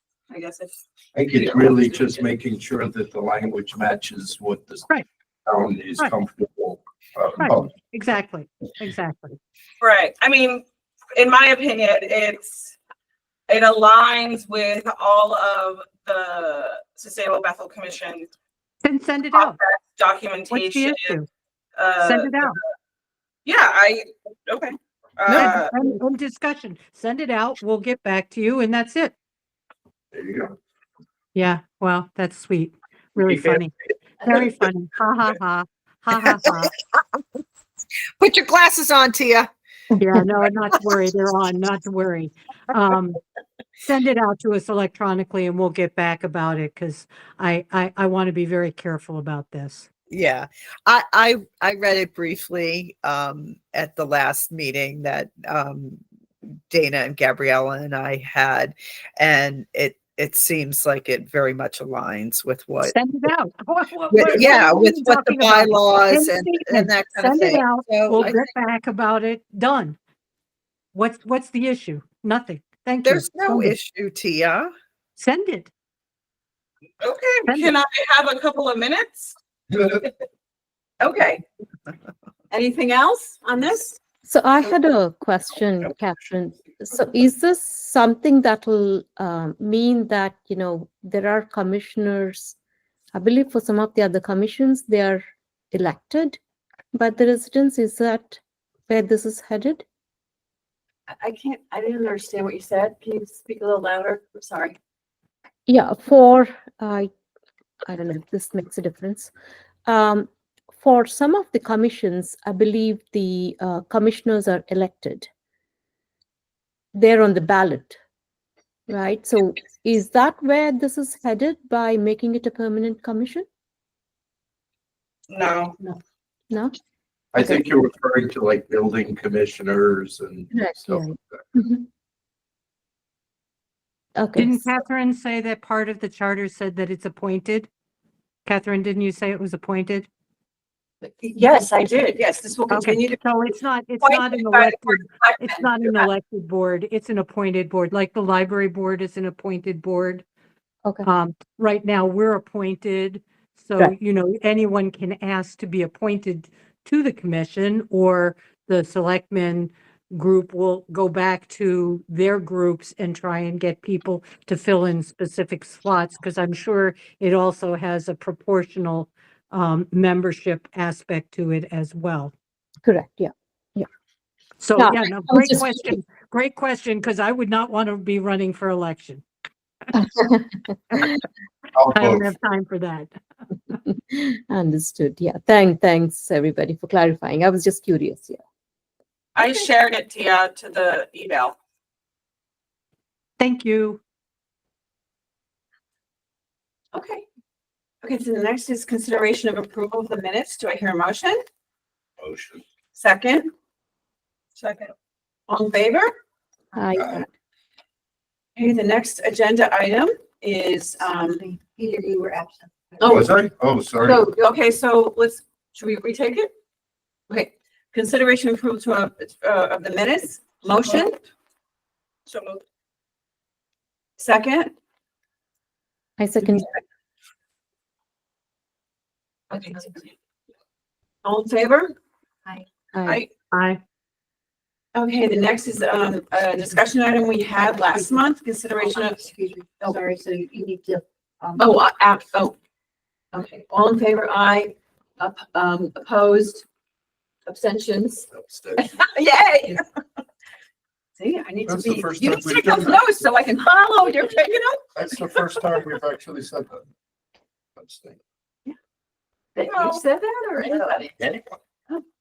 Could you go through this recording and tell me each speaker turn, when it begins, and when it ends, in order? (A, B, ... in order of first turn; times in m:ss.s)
0:00.3-0:00.7 A
0:01.1-0:04.9 B
0:01.3-0:02.3 A
0:05.4-0:07.7 B
0:07.4-0:09.4 C
0:09.8-0:10.6 A
0:11.1-0:12.7 A
0:13.5-0:18.3 A
0:18.8-0:19.6 C
0:19.3-0:21.2 A
0:20.5-0:21.3 C
0:21.8-0:22.5 A
0:22.0-0:22.6 C
0:23.4-0:25.8 A
0:25.3-0:29.1 C
0:30.1-0:30.5 B
0:31.3-0:36.7 C
0:33.2-0:33.5 B
0:36.9-0:37.2 D
0:38.2-0:39.5 D
0:40.0-0:43.2 C
0:43.8-0:49.9 C
0:50.1-1:03.0 D
1:02.8-1:10.0 C
1:04.1-1:08.4 D
1:10.9-1:13.7 C
1:13.0-1:14.7 D
1:15.2-1:15.7 C
1:17.0-1:19.3 A
1:17.4-1:17.8 C
1:21.0-1:21.4 E
1:22.5-1:24.0 E
1:24.2-1:32.6 F
1:33.1-1:36.4 F
1:36.9-1:39.8 F
1:41.2-1:44.8 E
1:45.7-1:47.1 F
1:47.9-1:49.3 F
1:49.8-1:55.3 F
1:56.9-1:58.0 F
1:58.9-2:03.4 F
2:05.3-2:05.8 A
2:07.3-2:11.5 B
2:10.5-2:11.8 F
2:14.2-2:14.6 F
2:14.4-2:17.7 C
2:18.4-2:20.1 C
2:21.0-2:23.4 E
2:22.7-2:30.2 C
2:24.0-2:26.0 E
2:31.0-2:52.3 C
2:52.8-2:53.9 F
2:54.6-2:59.2 C
2:54.8-2:55.8 F
2:59.9-3:01.2 F
3:01.7-3:02.2 B
3:01.9-3:03.1 C
3:03.9-3:08.4 F
3:09.4-3:11.6 A
3:09.4-3:09.7 E
3:13.4-3:14.0 C
3:16.9-3:17.2 E
3:18.0-3:21.4 E
3:22.2-3:22.6 B
3:22.9-3:23.5 E
3:24.6-3:24.9 A
3:25.5-3:26.1 E
3:26.7-3:27.2 F
3:28.6-3:31.4 E
3:31.0-3:33.2 G
3:33.0-3:33.3 E
3:33.0-3:34.2 B
3:34.0-3:36.5 E
3:37.3-3:41.2 E
3:42.3-3:42.6 A
3:44.2-3:44.7 E
3:46.2-3:46.7 F
3:49.5-3:50.0 E
3:51.2-3:51.9 E
3:52.9-3:53.2 F
3:53.5-3:53.8 C
3:54.9-3:59.2 E
3:58.8-4:01.7 G
4:01.6-4:02.6 E
4:03.3-4:06.6 E
4:07.5-4:08.2 E
4:08.3-4:08.9 B
4:08.8-4:09.8 E
4:11.2-4:15.5 E
4:11.6-4:13.0 B
4:14.9-4:16.8 B
4:17.8-4:18.2 B
4:19.5-4:21.2 E
4:19.7-4:20.0 A
4:21.2-4:21.6 B